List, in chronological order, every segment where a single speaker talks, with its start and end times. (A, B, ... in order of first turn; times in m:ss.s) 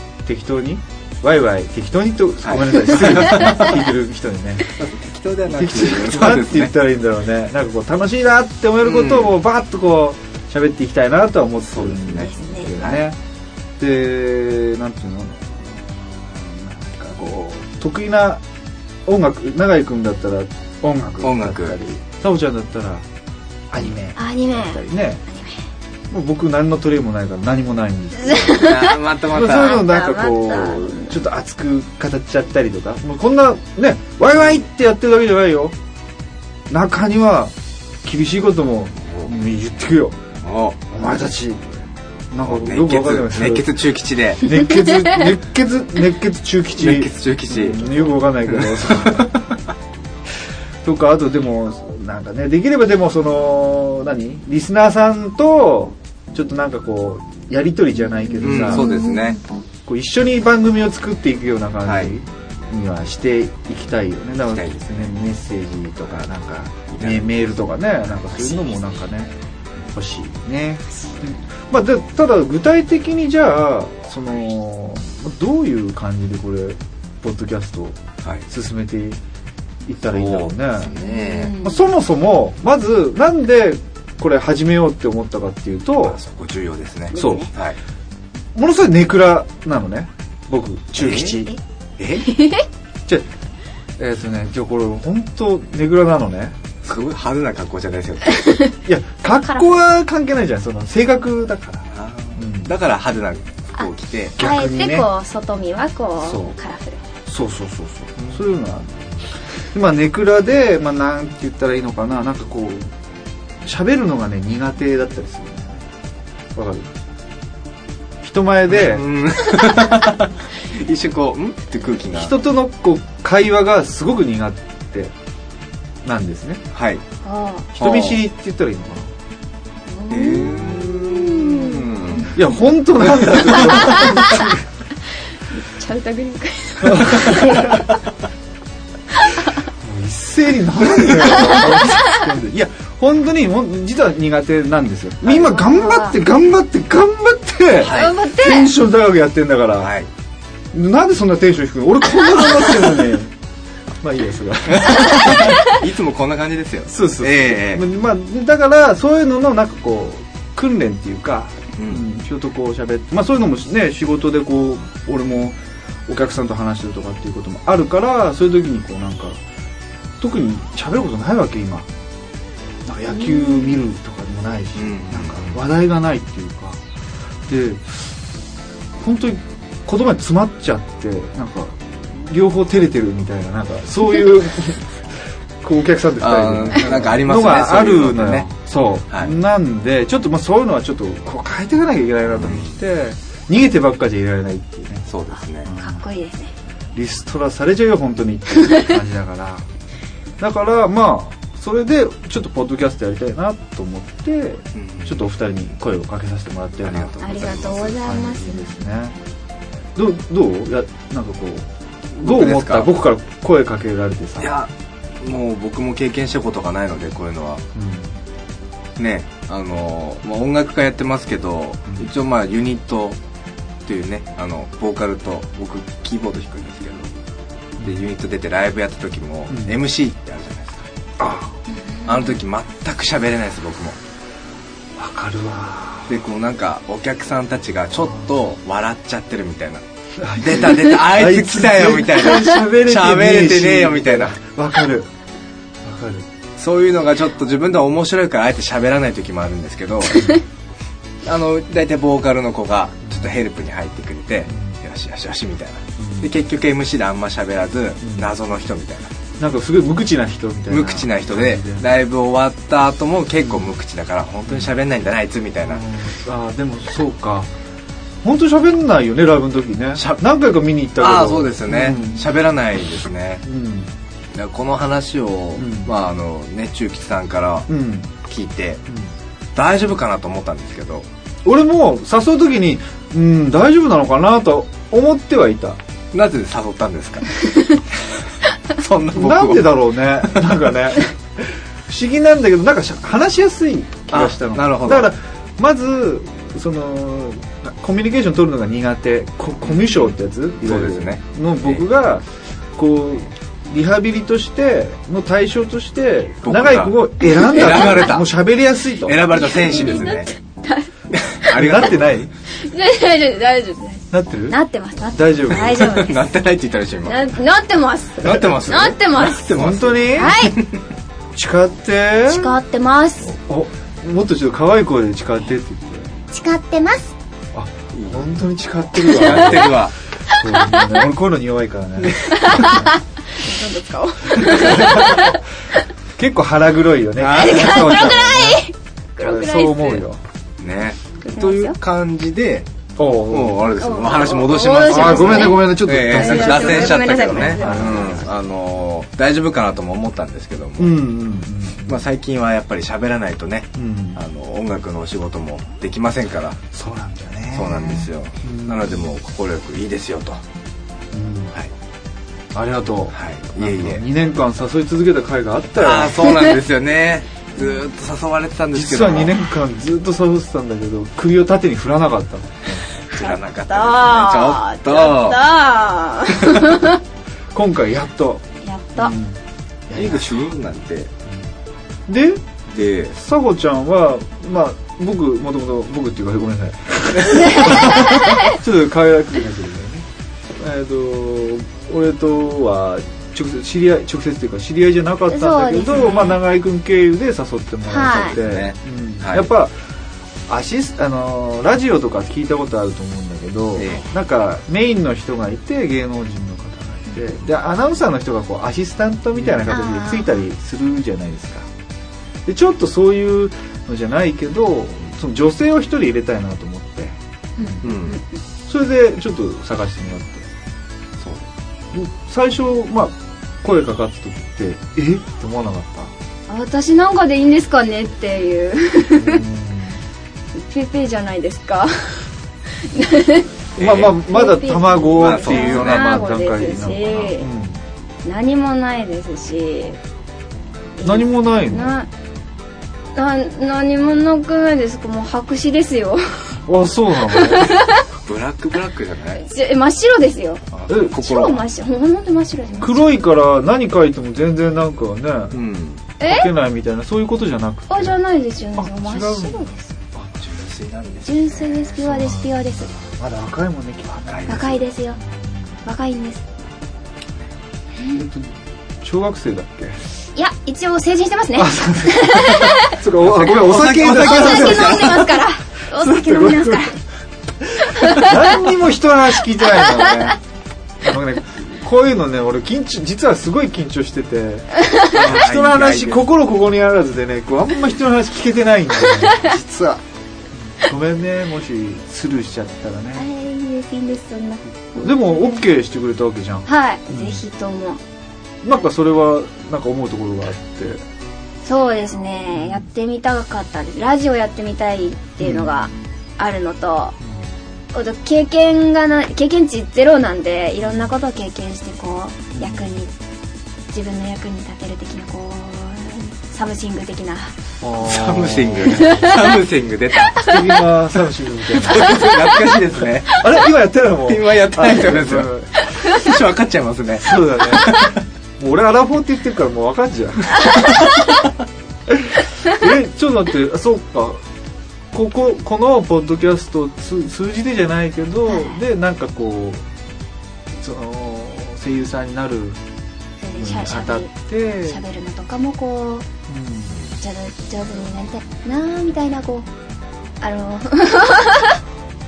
0:00.2-0:04.8 A
0:02.4-0:03.8 B
0:04.8-0:06.7 B
0:05.5-0:13.2 A
0:08.8-0:09.4 B
0:11.7-0:13.0 B
0:12.2-0:12.7 C
0:13.8-0:18.4 A
0:19.0-0:23.0 A
0:21.2-0:21.8 B
0:23.7-0:25.2 A
0:24.2-0:25.6 C
0:26.1-0:35.8 A
0:28.2-0:31.2 C
0:28.4-0:29.9 B
0:36.7-0:40.2 A
0:40.4-0:40.8 B
0:40.9-0:41.7 A
0:42.3-0:43.7 A
0:42.4-0:44.5 B
0:44.4-0:49.4 A
0:46.7-0:49.5 B
0:50.8-0:58.9 A
0:58.4-0:59.4 B
0:58.7-0:59.3 C
0:59.8-1:09.3 A
1:01.8-1:02.1 B
1:06.9-1:07.5 B
1:09.9-1:19.2 A
1:19.8-1:21.0 A
1:20.1-1:21.7 B
1:21.0-1:21.8 C
1:21.5-1:26.2 A
1:26.0-1:27.8 B
1:27.1-1:27.5 C
1:27.1-1:27.5 A
1:28.5-1:31.5 A
1:31.0-1:31.4 B
1:32.0-1:32.3 B
1:32.2-1:32.6 C
1:34.0-1:36.6 A
1:36.8-1:38.6 B
1:38.8-1:42.7 A
1:39.4-1:39.7 C
1:41.9-1:44.4 B
1:43.8-1:47.0 C
1:44.4-1:45.1 A
1:46.2-1:46.6 A
1:47.3-1:48.9 A
1:49.6-1:52.9 A
1:53.6-1:55.8 A
1:56.5-1:56.9 A
1:58.2-1:59.0 A
1:58.7-2:02.3 B
2:02.1-2:05.1 A
2:06.0-2:06.6 A
2:06.7-2:07.0 B
2:07.2-2:07.7 C
2:07.7-2:09.1 A
2:07.8-2:08.2 B
2:09.9-2:12.3 C
2:10.1-2:12.4 B
2:12.3-2:14.6 A
2:13.0-2:14.4 B
2:13.9-2:14.5 C
2:15.5-2:17.8 C
2:16.8-2:17.9 A
2:19.8-2:29.9 A
2:25.4-2:26.2 C
2:27.8-2:28.1 B
2:27.9-2:28.7 C
2:29.8-2:30.1 B
2:30.7-2:33.3 A
2:34.0-2:35.6 A
2:34.7-2:37.8 B
2:35.4-2:35.8 C
2:36.9-2:49.4 A
2:41.8-2:42.0 B
2:50.2-2:51.9 A
2:52.8-2:56.8 A
2:54.8-2:55.6 B
2:57.4-2:58.1 A
2:59.0-3:15.0 A
3:06.2-3:08.5 B
3:09.1-3:09.3 B
3:12.3-3:12.8 B
3:15.1-3:15.7 B
3:15.7-3:16.0 A
3:15.7-3:16.5 C
3:16.9-3:19.6 A
3:20.4-3:27.2 A
3:24.7-3:25.2 B
3:26.8-3:28.0 B
3:27.2-3:28.7 C
3:27.9-3:29.2 A
3:29.9-3:34.5 A
3:32.2-3:32.9 B
3:34.4-3:34.7 B
3:35.2-3:37.6 B
3:37.7-3:38.1 A
3:39.0-3:43.2 B
3:43.8-3:47.1 B
3:47.8-3:50.9 B
3:51.2-3:51.5 A
3:52.0-3:54.0 B
3:55.0-3:56.1 A
3:56.1-3:59.8 B
4:00.2-4:05.1 A
4:00.4-4:04.3 B
4:05.8-4:06.3 A
4:06.6-4:10.4 B
4:11.2-4:19.1 B
4:13.1-4:13.3 A
4:14.5-4:14.8 A
4:16.0-4:16.3 A
4:18.0-4:18.3 A
4:19.4-4:21.9 A
4:20.7-4:25.9 B
4:23.4-4:23.7 A
4:25.7-4:27.5 A
4:28.2-4:32.3 A
4:30.0-4:30.2 B
4:31.0-4:33.4 B
4:33.4-4:33.9 A
4:34.3-4:37.7 B
4:35.6-4:35.9 A
4:37.7-4:38.1 A
4:38.2-4:38.8 B
4:39.5-4:41.1 B
4:41.4-4:45.8 A
4:46.1-4:47.8 B
4:48.7-4:50.5 B
4:49.1-5:02.2 A
4:54.1-4:55.1 B
4:59.6-5:00.1 B
5:00.6-5:01.8 B
5:02.8-5:09.2 A
5:06.4-5:08.4 B
5:09.0-5:10.3 B
5:09.4-5:10.9 C
5:11.1-5:12.3 B
5:11.5-5:12.3 A
5:12.6-5:16.2 C
5:14.1-5:14.6 A
5:15.1-5:15.9 A
5:15.5-5:17.3 B
5:17.0-5:19.5 C
5:18.2-5:20.8 B
5:19.5-5:20.4 A
5:20.1-5:20.6 C
5:21.3-5:22.6 A
5:22.3-5:23.4 C
5:23.3-5:26.1 A
5:26.3-5:27.1 C
5:27.5-5:32.9 A
5:27.9-5:28.4 B
5:29.0-5:29.9 B
5:30.3-5:30.8 C
5:32.0-5:32.6 B
5:32.3-5:35.4 C
5:34.4-5:35.3 A
5:36.2-5:38.6 A
5:37.2-5:38.2 B
5:37.3-5:40.0 C
5:39.2-5:40.2 A
5:40.6-5:42.7 B
5:41.2-5:41.8 C
5:43.0-5:43.8 A
5:43.3-5:51.0 B
5:43.8-5:48.3 C
5:44.9-5:48.2 A
5:50.8-5:52.0 A
5:51.9-5:56.6 B
5:53.8-5:54.2 A
5:56.7-5:59.0 A
5:57.5-6:00.4 B
6:01.1-6:01.5 A
6:02.5-6:06.3 A
6:03.1-6:04.0 B
6:05.8-6:09.4 B
6:08.7-6:12.8 A
6:13.1-6:15.4 B
6:13.1-6:17.0 C
6:17.5-6:20.3 A
6:18.6-6:19.1 C
6:19.9-6:21.1 B
6:22.1-6:22.4 A
6:22.7-6:23.2 B
6:23.2-6:39.8 A
6:27.2-6:28.2 B
6:27.3-6:28.6 C
6:35.3-6:36.4 C
6:36.0-6:36.2 B
6:37.9-6:38.4 C
6:38.0-6:39.5 B
6:40.5-6:51.7 A
6:43.8-6:44.0 B
6:49.7-6:50.4 C
6:52.4-6:57.9 A
6:57.6-6:58.2 C
6:57.8-6:58.2 B
6:58.7-7:00.5 A
7:01.2-7:01.4 B
7:01.9-7:06.1 A
7:06.5-7:09.4 C
7:09.2-7:10.0 A
7:10.5-7:12.3 C
7:12.8-7:13.5 C
7:13.8-7:14.2 B
7:13.8-7:17.8 A
7:14.2-7:17.5 C
7:15.1-7:16.1 B
7:18.2-7:20.0 C
7:21.0-7:22.1 C
7:21.0-7:21.9 A
7:23.1-7:26.6 C
7:26.6-7:27.8 A
7:27.3-7:28.0 C
7:28.2-7:29.4 B
7:29.4-7:33.2 C
7:30.7-7:31.6 B
7:30.9-7:31.2 A
7:32.8-7:35.6 A
7:35.5-7:36.0 B
7:36.2-7:36.5 C
7:36.2-7:38.2 A
7:37.9-7:39.9 C
7:38.8-7:39.7 A
7:40.4-7:41.9 B
7:41.2-7:42.9 C
7:42.0-7:44.7 A
7:44.2-7:44.8 B
7:44.5-7:45.2 C
7:45.2-7:45.6 A
7:45.8-7:46.4 C
7:48.1-7:50.0 A
7:50.3-7:53.0 C
7:51.6-7:55.2 A
7:53.1-7:55.4 B
7:54.0-7:57.0 C
7:56.0-7:56.9 A
7:57.8-7:58.4 C
7:58.1-8:00.4 A
7:59.7-8:00.3 C
8:01.0-8:10.0 A
8:04.8-8:05.1 C
8:05.0-8:06.2 B
8:09.2-8:09.5 C
8:10.6-8:13.2 A
8:13.2-8:15.6 C
8:15.0-8:17.4 A
8:16.6-8:18.0 C
8:18.6-8:21.0 A
8:21.6-8:27.1 C
8:22.6-8:22.8 A
8:25.4-8:25.9 A
8:27.9-8:33.1 C
8:30.8-8:31.1 A
8:32.5-8:33.0 A
8:33.9-8:37.5 C
8:37.8-8:39.3 A
8:38.0-8:40.6 B
8:38.9-8:39.6 C
8:40.2-8:40.5 C
8:40.4-8:42.3 A
8:41.8-8:43.5 B
8:41.9-8:42.6 C
8:43.3-8:45.8 A
8:44.2-8:48.2 B
8:47.2-8:48.0 A
8:48.6-8:50.8 A
8:50.7-8:51.0 B
8:52.1-8:54.4 A
8:55.1-8:59.8 A
8:58.5-8:58.8 C
9:00.7-9:02.8 A
9:03.4-9:04.3 C
9:03.6-9:05.0 A
9:04.8-9:06.3 C
9:06.5-9:07.0 A
9:07.2-9:09.7 C
9:10.4-9:11.8 C